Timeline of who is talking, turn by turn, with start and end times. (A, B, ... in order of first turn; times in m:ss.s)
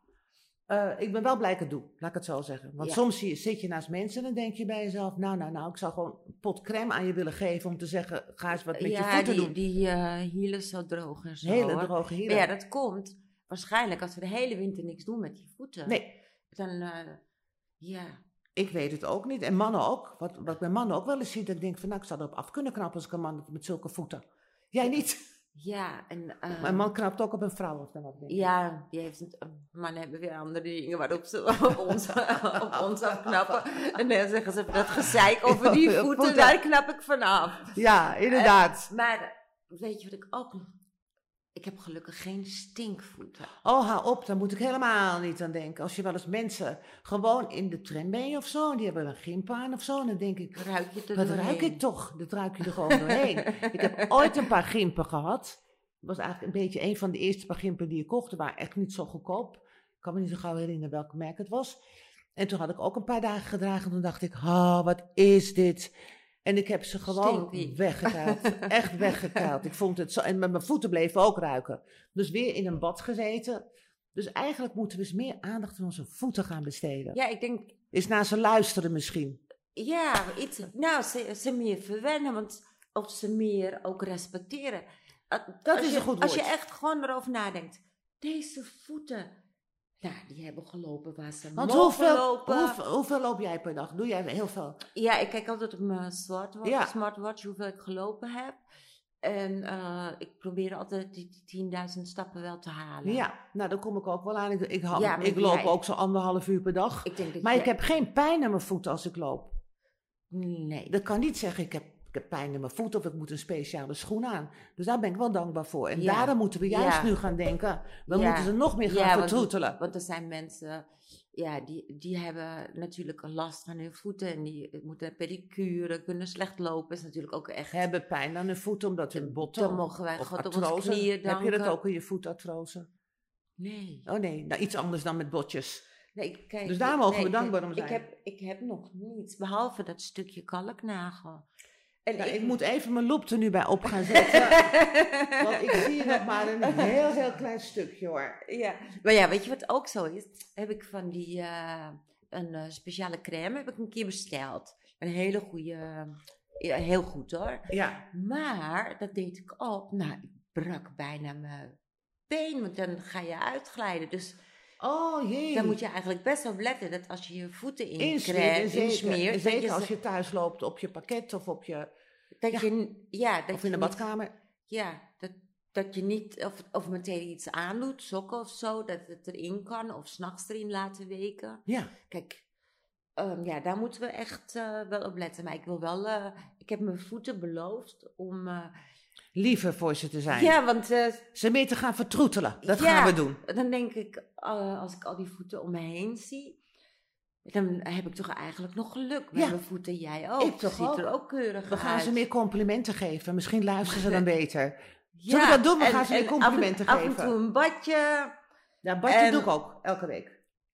0:00.7-0:09.6 A
0:08.7-0:17.2 B
0:11.4-0:12.5 A
0:15.9-0:16.1 A
0:17.8-0:18.2 B
0:18.6-0:25.2 A
0:25.6-0:26.9 B
0:26.6-0:28.5 A
0:28.3-0:40.8 B
0:32.2-0:33.6 A
0:35.0-0:36.6 A
0:37.7-0:38.9 A
0:41.6-0:43.5 B
0:43.6-1:01.8 A
0:50.6-0:51.8 B
0:52.6-0:54.4 B
1:02.4-1:05.9 A
1:06.4-1:13.6 A
1:07.1-1:09.5 B
1:14.2-1:17.2 A
1:17.1-1:17.8 B
1:17.9-1:19.4 A
1:19.8-1:29.3 B
1:25.7-1:26.5 A
1:30.0-1:32.8 B
1:31.6-1:34.8 A
1:34.9-1:38.6 B
1:36.6-1:36.9 A
1:39.2-1:43.3 B
1:43.0-1:49.5 A
1:44.9-1:45.8 B
1:47.0-1:47.8 B
1:50.3-1:51.0 B
1:50.9-1:59.8 A
1:55.9-1:57.2 B
1:58.1-2:07.9 B
2:07.7-2:12.9 A
2:09.2-2:11.8 B
2:13.6-2:14.1 B
2:14.1-2:15.8 A
2:16.2-2:21.5 B
2:16.6-2:18.0 A
2:22.1-2:22.6 B
2:22.2-2:24.8 A
2:23.9-2:26.9 B
2:25.4-2:28.4 A
2:28.5-2:41.8 B
2:37.7-2:38.0 A
2:42.3-2:44.4 B
2:44.8-2:45.8 A
2:45.5-2:49.9 B
2:48.0-2:51.9 A
2:52.4-2:54.1 B
2:53.5-2:54.3 A
2:54.7-3:02.4 B
3:03.2-3:08.7 B
3:09.4-3:10.6 A
3:10.3-3:11.2 B
3:11.3-3:13.4 A
3:12.6-3:16.6 B
3:17.5-3:22.2 B
3:20.4-3:21.1 A
3:21.7-3:24.8 A
3:23.9-3:24.2 B
3:25.2-3:28.3 B
3:25.3-3:27.4 A
3:28.8-3:30.3 A
3:29.1-3:29.5 B